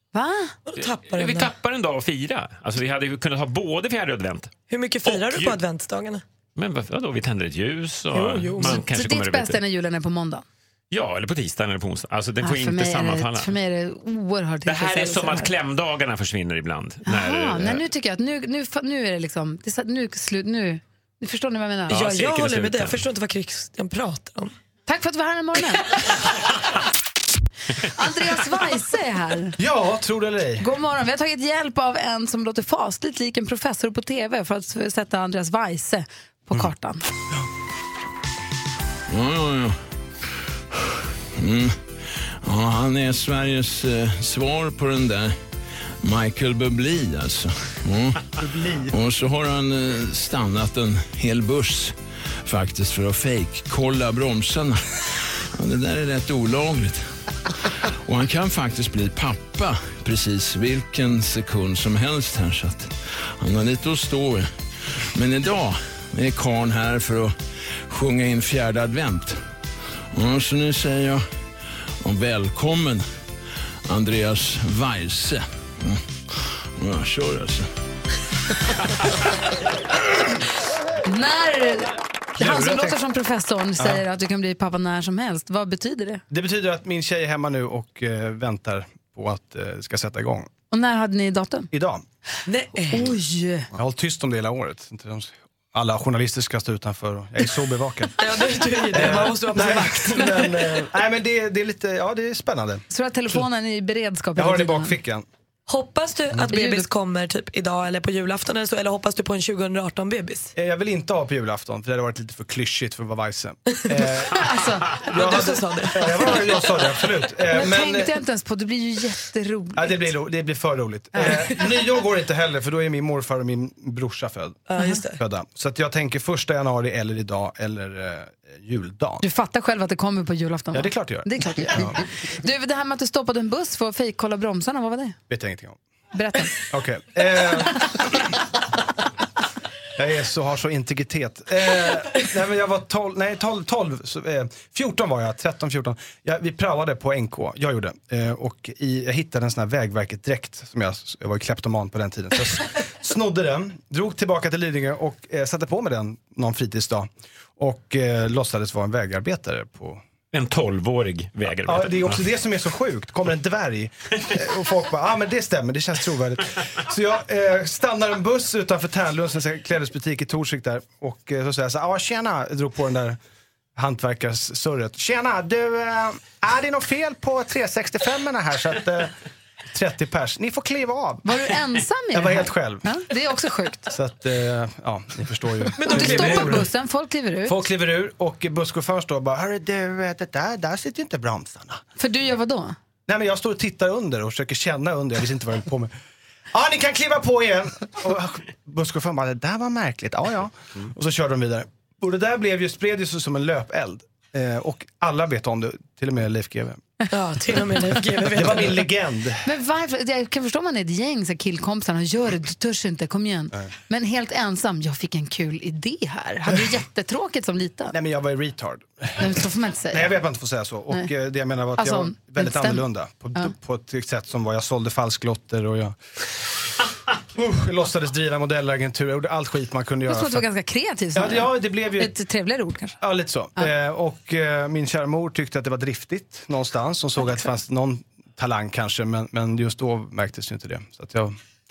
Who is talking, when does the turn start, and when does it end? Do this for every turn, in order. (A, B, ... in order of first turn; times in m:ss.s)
0:00.1-0:00.5 A
0:00.7-0:01.5 B
0:00.8-0:04.5 C
0:04.7-0:06.2 B
0:05.0-0:05.6 C
0:06.6-0:09.6 C
0:08.1-0:08.8 B
0:08.6-0:10.4 A
0:10.9-0:13.5 C
0:12.4-0:15.5 A
0:14.6-0:17.8 C
0:17.0-0:22.0 A
0:21.9-0:23.0 C
0:21.9-0:24.5 B
0:24.9-0:26.0 A
0:27.9-0:29.6 A
0:29.6-0:30.6 D
0:30.6-0:37.0 A
0:39.1-0:39.8 E
0:41.4-0:45.4 E
0:46.0-0:48.3 E
0:48.4-0:48.9 D
0:48.8-0:55.0 E
0:55.6-0:57.1 E
0:57.9-1:04.5 E
1:05.1-1:07.4 E
1:07.9-1:09.4 E
1:10.1-1:11.3 E
1:12.0-1:13.0 E
1:13.9-1:17.7 E
1:21.0-1:26.2 A
1:22.4-1:23.0 D
1:23.8-1:24.0 D
1:26.3-1:30.5 D
1:30.7-1:31.7 A
1:31.7-1:32.0 D
1:32.4-1:33.1 B
1:32.9-1:33.7 A
1:33.7-1:38.3 D
1:38.2-1:40.8 B
1:38.9-1:43.5 D
1:42.9-1:44.9 A
1:44.4-1:45.2 D
1:45.7-1:50.5 B
1:46.5-1:46.8 A
1:50.5-1:58.1 D
1:54.3-1:54.9 A
1:55.0-1:56.6 B
1:57.5-2:00.1 A
1:59.7-2:09.2 D
2:01.2-2:01.6 B
2:04.7-2:05.2 B
2:09.2-2:15.2 A
2:10.7-2:12.0 D
2:15.3-2:15.8 D
2:16.1-2:16.6 A
2:16.6-2:18.2 D
2:20.0-2:40.0 D
2:40.3-2:42.2 C
2:41.6-2:53.2 D
2:53.8-2:59.1 D
2:59.7-3:01.4 D
3:01.2-3:03.9 A
3:02.1-3:03.0 D
3:03.9-3:06.7 D
3:05.8-3:06.7 B
3:05.8-3:07.6 A
3:07.4-3:11.8 D
3:12.0-3:12.7 A
3:13.1-3:15.9 D
3:16.5-3:26.8 D
3:27.1-3:28.9 B
3:28.3-3:29.4 D
3:29.4-3:37.9 A
3:37.9-3:39.4 D
3:39.2-3:40.2 A
3:39.9-3:46.0 D
3:41.8-3:43.5 A
3:47.3-3:50.5 D
3:50.1-3:53.0 A
3:51.1-3:52.1 D
3:53.0-4:01.3 D